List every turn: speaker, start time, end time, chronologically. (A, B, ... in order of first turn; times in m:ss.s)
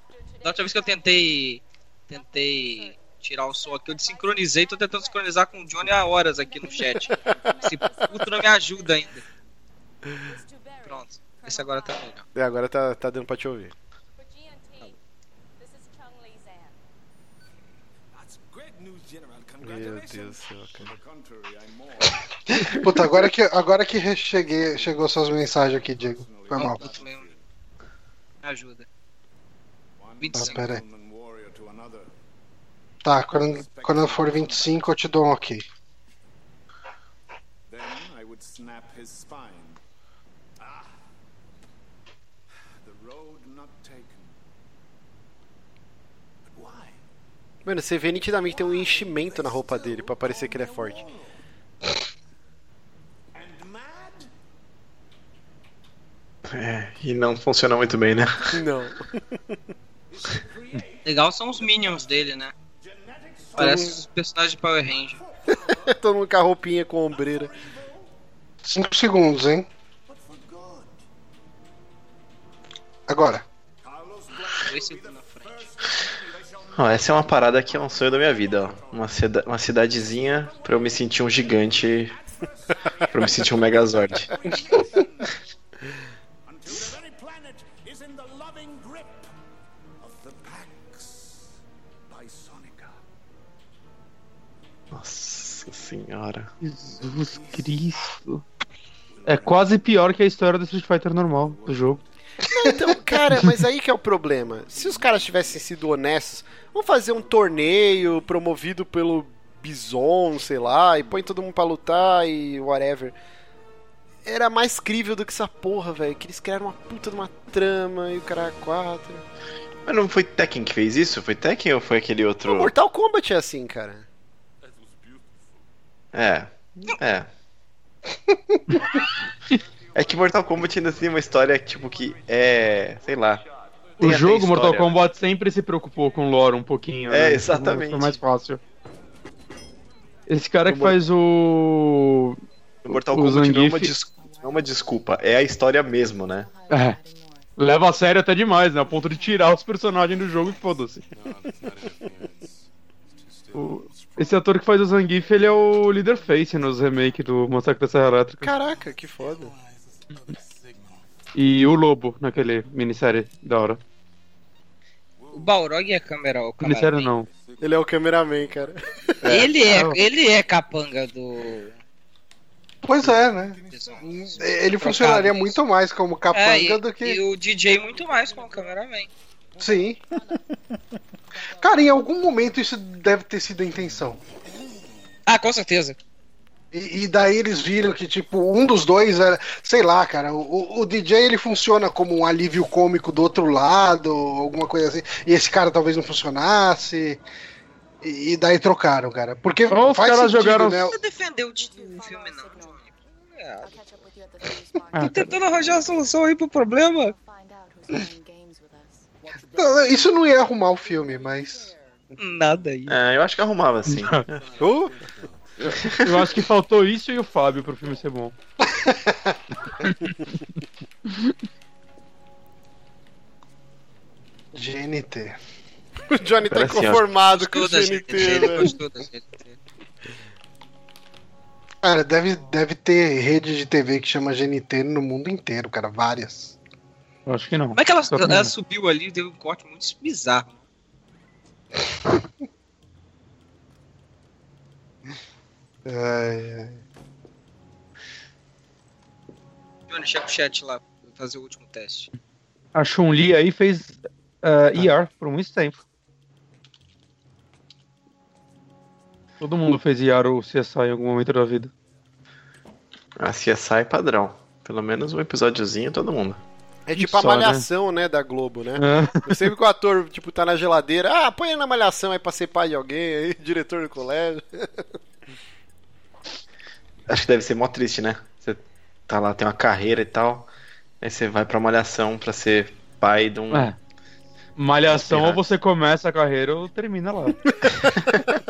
0:00.4-0:09.2 A
0:00.4-0:01.0 B
0:06.6-0:07.0 B
0:07.6-0:08.6 B
0:10.3-0:12.0 B
0:10.8-0:12.2 A
0:12.4-0:13.8 C
0:14.2-0:15.0 B
0:15.6-0:16.8 B
0:18.1-0:22.0 D
0:19.6-0:20.9 C
0:22.5-0:26.9 E
0:26.5-0:27.3 A
0:28.4-0:28.9 A
0:30.2-0:30.7 A
0:30.3-0:30.8 E
0:31.1-0:32.0 D
0:33.0-0:35.7 E
0:33.7-0:34.4 D
0:37.7-0:39.7 D
0:42.8-0:44.3 D
0:46.5-0:47.0 D
0:47.6-0:51.1 C
0:48.6-0:51.4 D
0:53.3-0:54.3 D
0:56.5-0:58.6 F
0:58.5-0:59.5 C
1:00.1-1:01.0 D
1:01.0-1:02.5 A
1:02.8-1:03.8 D
1:03.6-1:04.0 C
1:03.6-1:05.2 A
1:05.5-1:07.5 C
1:05.6-1:05.9 D
1:07.6-1:08.0 D
1:08.6-1:09.7 E
1:10.1-1:11.0 D
1:13.1-1:13.4 E
1:14.5-1:15.7 A
1:16.8-1:22.2 F
1:22.4-1:25.3 D
1:23.1-1:24.4 F
1:26.5-1:29.3 D
1:30.0-1:31.5 D
1:32.1-1:33.0 D
1:34.9-1:36.5 F
1:36.6-1:38.4 G
1:36.9-1:37.8 D
1:39.1-1:39.8 D
1:39.2-1:42.0 G
1:41.5-1:42.0 D
1:42.4-1:53.2 C
1:54.3-1:59.2 C
1:59.9-2:02.7 F
2:02.4-2:04.1 C
2:04.6-2:05.4 D
2:06.1-2:07.3 F
2:08.3-2:08.6 E
2:10.0-2:13.4 F
2:14.0-2:15.0 F
2:14.0-2:18.6 G
2:17.1-2:18.2 F
2:20.3-2:24.0 G
2:20.7-2:21.0 F
2:22.9-2:26.5 F
2:26.5-2:27.5 B
2:26.7-2:27.0 G
2:27.6-2:31.0 G
2:31.1-2:34.4 D
2:33.5-2:38.5 G
2:38.4-2:39.5 C
2:38.9-2:41.1 D
2:41.4-2:43.8 G
2:45.2-2:45.7 D
2:45.3-2:47.1 A
2:46.6-2:47.3 G
2:47.3-2:49.5 D
2:47.6-2:49.6 C
2:49.3-2:51.8 A
2:49.6-2:50.0 G
2:52.8-2:57.2 E
2:53.2-2:54.4 D
2:53.7-2:54.0 A
2:54.8-2:55.5 A
2:56.3-2:59.1 A
2:59.6-3:00.0 E
3:01.6-3:04.2 E
3:05.3-3:06.0 A
3:06.7-3:17.2 E
3:18.0-3:21.0 E
3:19.7-3:20.9 G
3:20.8-3:23.7 A
3:21.6-3:23.0 B
3:23.6-3:26.1 B
3:24.9-3:25.4 G
3:25.0-3:27.1 A
3:27.1-3:29.1 B
3:29.3-3:30.2 D
3:29.5-3:31.7 E
3:32.2-3:33.0 A
3:32.9-3:34.5 F
3:33.8-3:34.2 G
3:34.2-3:35.8 D
3:34.6-3:35.0 C
3:35.6-3:38.4 G
3:35.7-3:36.4 F
3:38.6-3:39.4 E
3:39.8-3:40.4 G
3:41.1-3:41.3 G
3:44.5-3:45.4 E
3:46.1-3:48.7 C
3:46.4-3:47.1 F
3:47.3-3:49.6 A
3:51.8-3:56.6 E
3:57.3-3:58.5 G
3:57.7-4:00.6 A
4:05.8-4:06.8 E
4:09.9-4:12.1 A
4:12.8-4:15.8 G
4:19.4-4:21.7 G
4:23.2-4:26.4 F
4:26.9-4:34.8 C
4:27.0-4:27.7 G
4:28.8-4:29.5 G
4:37.1-4:40.5 F
4:41.0-4:43.7 F
4:43.5-4:43.8 G
4:44.6-4:47.5 G
4:44.9-4:45.4 F